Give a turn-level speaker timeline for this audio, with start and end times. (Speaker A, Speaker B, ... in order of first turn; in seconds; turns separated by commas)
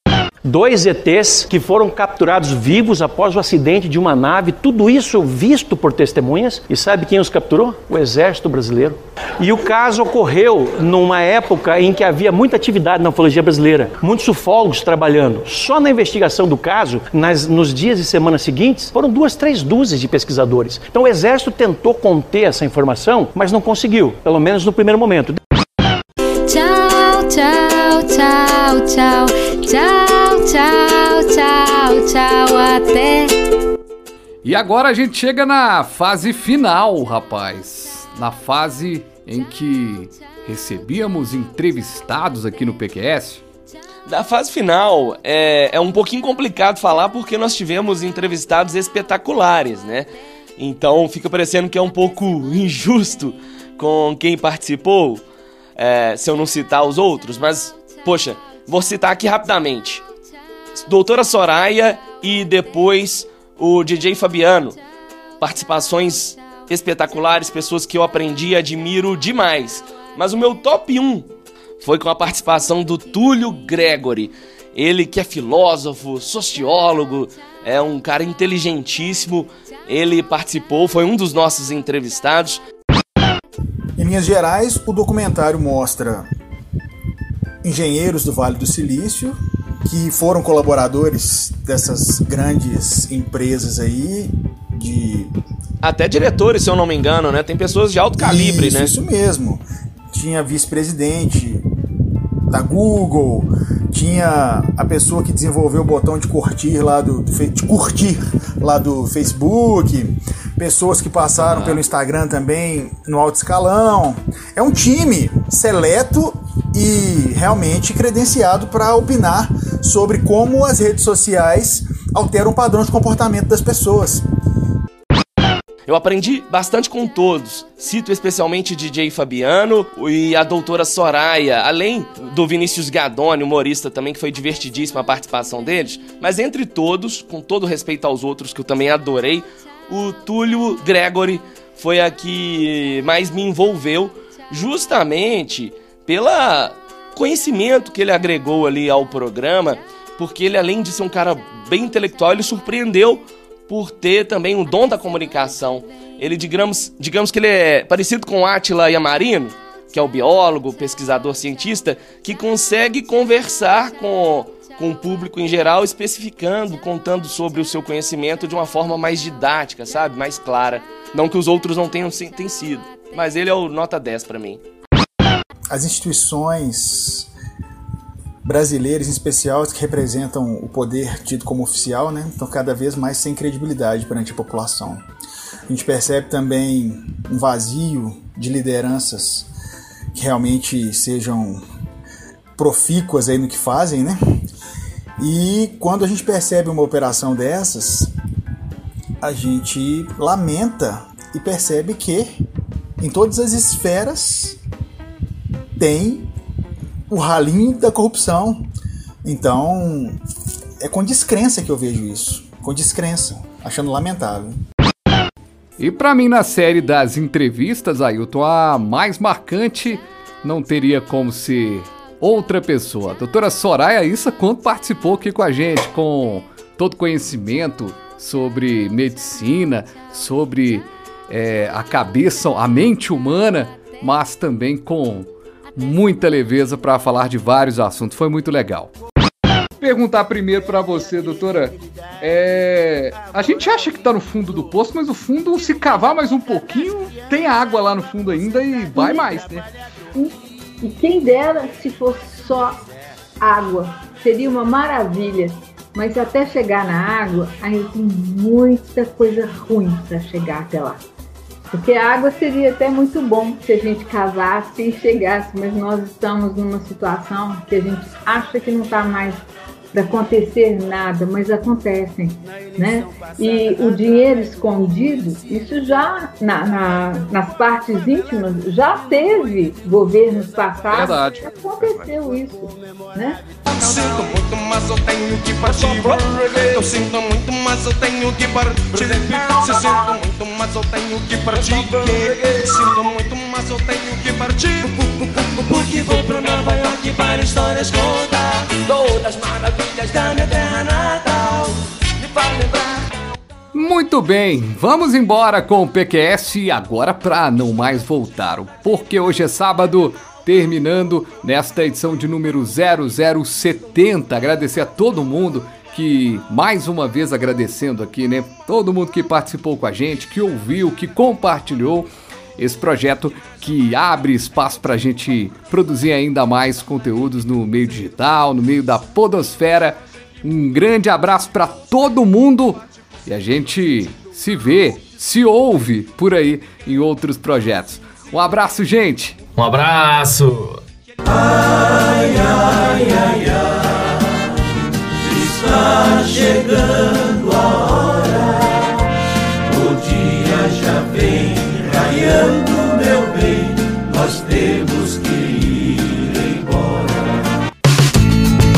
Speaker A: 0.4-25.4, Speaker B: 26.5-33.3, Speaker C: 34.4-43.4, Speaker D: 44.0-55.2, Speaker D: 55.8-60.0, Speaker D: 60.7-64.8, Speaker D: 65.4-71.3, Speaker D: 71.8-82.6, Speaker E: 84.0-86.3, Speaker E: 87.6-95.3, Speaker D: 95.8-98.9, Speaker E: 98.2-101.7, Speaker E: 102.5-124.2, Speaker D: 125.9-174.6, Speaker E: 175.7-177.3, Speaker E: 178.4-185.0, Speaker E: 185.7-189.5, Speaker E: 190.1-191.6, Speaker E: 192.6-194.2, Speaker E: 195.2-198.1, Speaker E: 199.2-202.3, Speaker E: 203.0-204.6, Speaker E: 205.8-206.3, Speaker E: 207.1-208.7, Speaker E: 209.2-210.2, Speaker E: 210.8-214.6, Speaker C: 215.8-238.9, Speaker C: 239.8-249.7, Speaker F: 248.9-249.3, Speaker F: 250.1-252.8, Speaker F: 253.4-261.0, Speaker F: 261.7-283.4, Speaker C: 280.9-282.1, Speaker G: 283.7-295.1, Speaker H: 291.9-292.2, Speaker H: 295.3-303.1, Speaker C: 303.7-339.4, Speaker D: 339.6-340.6, Speaker H: 339.7-340.4, Speaker H: 342.1-343.3, Speaker H: 345.7-347.5, Speaker H: 349.7-355.6